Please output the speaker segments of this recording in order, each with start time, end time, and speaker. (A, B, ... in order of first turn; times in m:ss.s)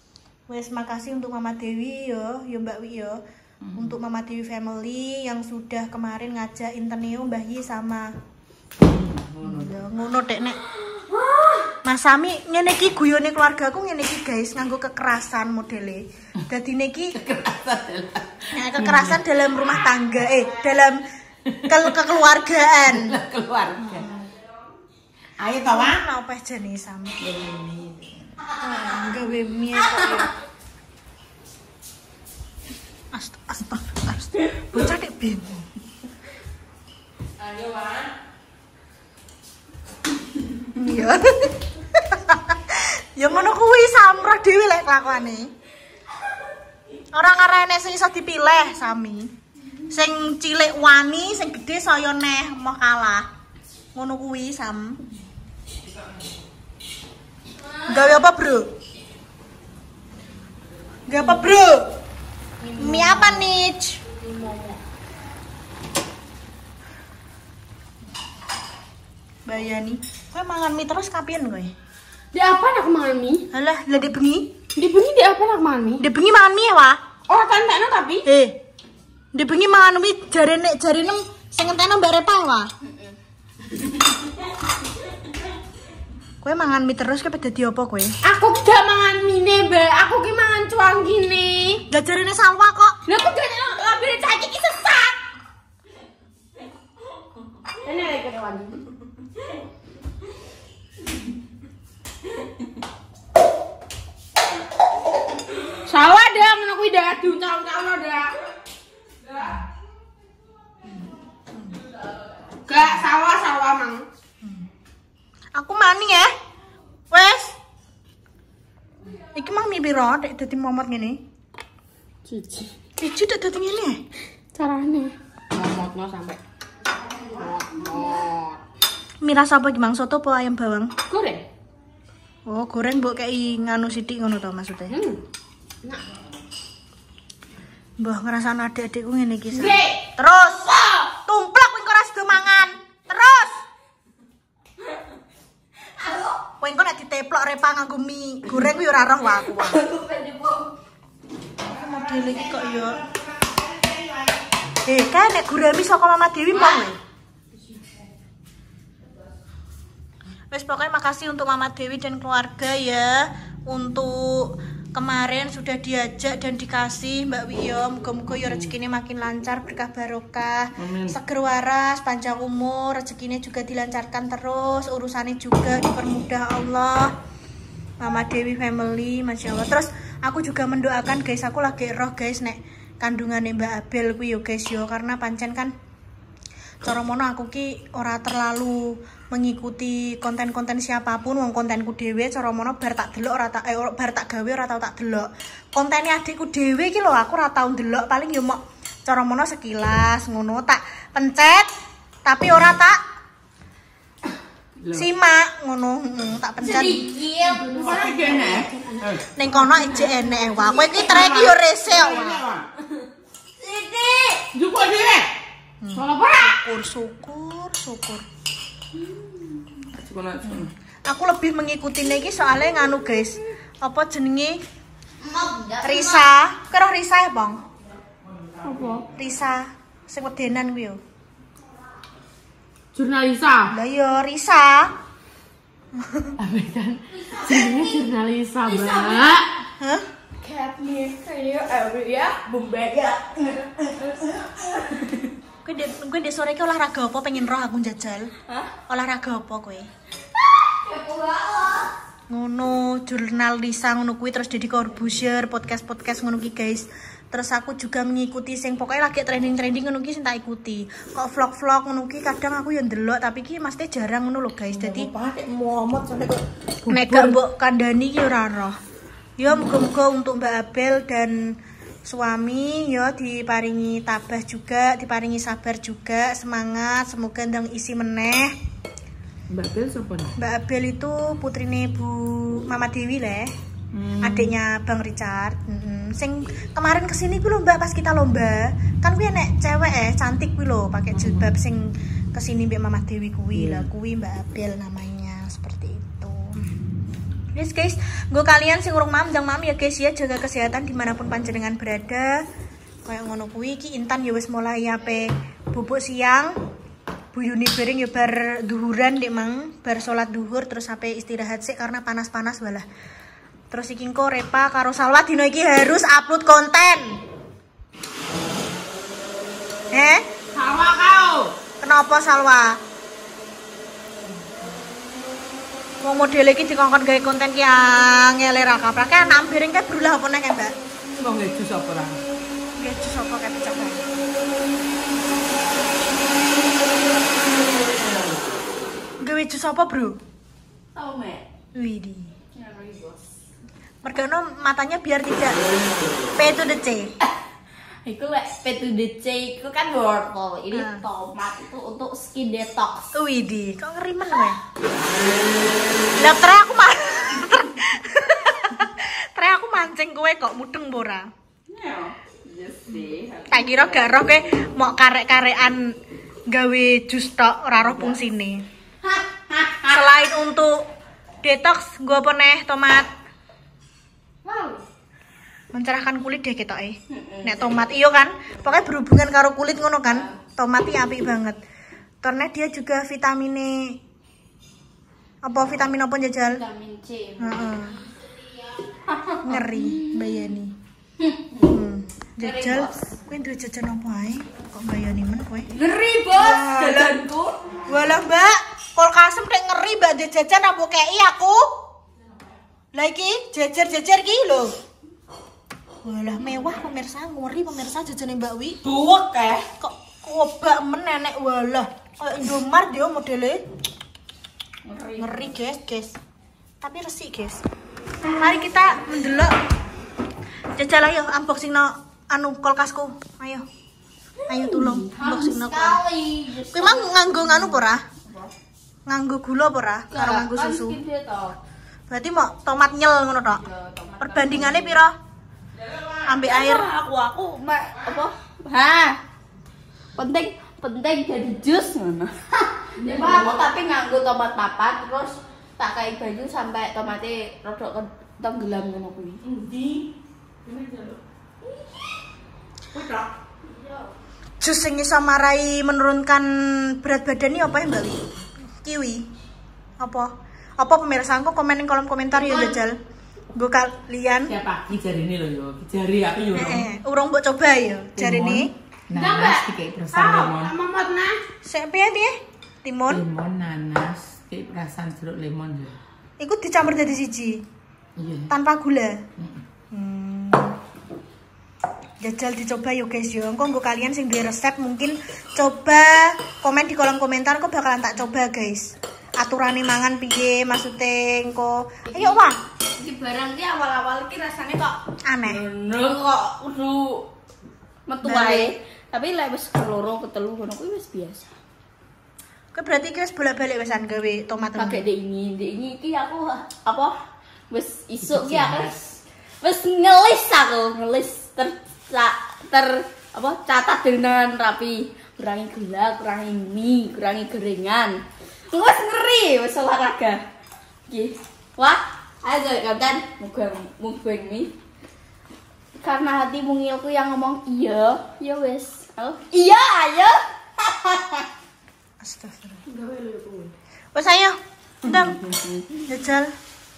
0:00.5-0:03.2 A
0:03.6-0:03.9 B
0:03.8-0:08.1 A
0:08.8-0:09.7 B
0:09.4-0:10.6 A
0:10.9-0:11.7 C
0:11.8-0:17.2 A
0:17.1-0:19.2 B
0:18.5-0:21.0 A
0:21.5-0:21.8 B
0:21.6-0:23.2 A
0:22.9-0:24.0 B
0:23.8-0:24.3 A
0:25.4-0:26.0 B
0:25.7-0:27.2 A
0:27.2-0:28.3 B
0:28.6-0:30.3 A
0:33.1-0:35.6 A
0:37.4-0:38.1 B
0:40.7-0:45.5 A
0:47.1-0:49.3 A
0:49.9-0:53.3 A
0:53.9-0:55.0 A
0:57.6-0:58.1 C
0:57.9-0:58.7 A
1:01.1-1:01.9 A
1:02.8-1:04.0 A
1:02.8-1:03.3 D
1:04.2-1:04.8 D
1:09.4-1:11.7 A
1:12.3-1:13.4 D
1:13.5-1:14.5 A
1:14.8-1:16.0 D
1:16.0-1:17.0 A
1:17.3-1:18.2 D
1:18.2-1:18.6 A
1:19.3-1:22.7 A
1:22.8-1:23.1 C
1:26.4-1:28.1 A
1:28.2-1:31.8 D
1:31.9-1:33.0 A
1:33.1-1:35.2 D
1:37.8-1:38.8 D
1:45.8-1:48.3 D
1:52.7-1:54.0 D
1:55.5-1:56.3 A
1:57.1-1:57.6 A
1:59.3-2:01.2 A
2:02.3-2:02.7 D
2:03.0-2:04.0 A
2:04.5-2:06.4 D
2:07.3-2:08.6 D
2:09.2-2:10.9 A
2:11.1-2:11.4 D
2:12.5-2:15.0 A
2:14.9-2:15.2 D
2:18.0-2:20.7 A
2:19.6-2:19.9 D
2:21.2-2:23.6 A
2:25.9-2:26.4 C
2:26.6-2:29.8 A
2:29.3-2:30.7 C
2:31.6-2:33.0 A
2:31.8-2:34.5 B
2:34.8-2:37.0 A
2:36.5-2:36.9 C
2:40.5-2:57.1 A
2:50.8-2:51.2 B
2:58.0-3:05.7 A
3:06.8-3:21.7 A
3:22.2-3:23.0 A
3:24.8-3:25.1 B
3:24.9-3:27.0 A
3:26.6-3:28.6 C
3:27.4-3:29.1 D
3:27.6-3:29.2 B
3:29.3-3:32.4 A
3:30.7-3:32.6 B
3:33.6-3:34.5 C
3:34.5-3:35.3 B
3:35.8-3:38.2 A
3:35.9-3:36.6 D
3:39.9-3:40.7 B
3:41.0-3:44.6 A
3:45.2-3:46.3 C
3:45.8-3:47.6 A
3:48.6-3:49.0 C
3:49.2-3:51.0 A
3:53.0-3:53.6 B
3:53.0-3:53.5 D
3:53.7-3:54.9 A
3:56.0-3:56.3 A
3:56.4-3:59.3 B
3:57.2-3:58.0 C
3:58.6-3:59.4 C
3:59.8-4:00.1 A
4:00.4-4:05.0 C
4:05.6-4:08.3 A
4:08.9-4:09.9 A
4:10.3-4:11.9 C
4:12.3-4:25.1 A
4:24.7-4:27.4 B
4:26.9-4:28.8 A
4:29.4-4:38.5 A
4:39.5-4:40.3 B
4:40.4-4:43.5 A
4:43.9-4:44.5 B
4:44.2-4:56.6 A
4:51.1-4:51.5 B
4:53.5-4:53.9 B
4:57.5-5:02.4 A
5:03.0-5:06.5 A
5:07.3-5:12.8 A
5:13.7-5:17.2 A
5:19.9-5:20.2 A
5:20.5-5:21.5 B
5:21.8-5:22.8 A
5:26.0-5:30.7 A
5:31.2-5:32.2 B
5:32.8-5:34.1 A
5:39.2-5:40.2 A
5:40.9-5:41.4 C
5:41.7-5:42.3 A
5:42.5-5:43.2 C
5:44.0-5:45.6 A
5:46.3-5:47.1 A
5:48.0-5:53.1 C
5:50.7-5:51.0 A
5:53.1-5:54.6 A
5:56.1-6:01.2 A
6:01.7-6:04.4 C
6:02.9-6:06.0 A
6:06.5-6:08.6 A
6:09.0-6:10.0 C
6:09.9-6:10.8 A
6:11.4-6:13.1 A
6:14.5-6:14.8 C
6:15.7-6:21.6 A
6:17.1-6:17.8 C
6:22.2-6:24.0 A
6:25.4-6:26.6 A
6:26.5-6:27.9 C
6:27.4-6:28.0 A
6:28.9-6:30.4 C
6:29.4-6:30.7 A
6:31.2-6:31.7 C
6:31.7-6:35.7 A
6:32.4-6:33.0 C
6:35.7-6:37.5 C
6:36.3-6:37.2 A
6:37.9-6:41.8 A
6:42.9-6:44.7 A
6:46.0-6:48.8 A
6:48.8-6:49.6 B
6:49.8-6:53.6 A
6:54.8-6:55.5 C
6:55.2-6:56.2 A
6:56.8-6:57.6 A
6:58.3-6:59.6 A
7:00.8-7:03.6 A
7:04.4-7:08.5 C
7:04.5-7:06.0 A
7:06.7-7:08.0 A
7:09.0-7:11.0 A
7:10.1-7:11.6 C
7:12.1-7:13.6 A
7:13.5-7:15.0 C
7:14.2-7:15.1 A
7:15.9-7:16.2 B
7:16.2-7:16.8 A
7:16.4-7:19.2 C
7:20.2-7:29.4 C
7:23.0-7:23.6 B
7:29.4-7:30.1 B
7:30.6-7:31.2 B
7:31.6-7:32.1 C
7:32.9-7:33.3 B
7:33.6-7:34.1 C
7:34.6-7:39.2 A
7:40.0-7:43.0 A
7:42.4-7:42.7 C
7:43.5-7:44.5 A
7:44.4-7:46.8 B
7:46.5-7:48.7 A
7:48.2-7:50.7 B
7:49.1-7:51.4 D
7:51.6-7:53.2 A
7:53.1-7:56.0 B
7:56.4-7:57.6 A
7:58.2-7:58.5 B
7:58.5-7:59.2 A
7:59.9-8:00.8 A
8:02.2-8:12.6 A
8:12.1-8:17.3 C
8:15.3-8:15.6 A
8:18.1-8:21.5 C
8:18.2-8:18.7 A
8:22.7-8:25.0 A
8:24.8-8:27.1 C
8:27.7-8:38.2 C
8:28.2-8:28.9 B
8:38.7-8:40.4 C
8:41.1-8:44.7 C
8:46.0-8:51.4 C
8:52.2-8:52.8 A
8:52.8-8:53.7 C
8:54.1-8:55.5 A
8:55.3-8:56.0 C
8:56.0-8:56.5 A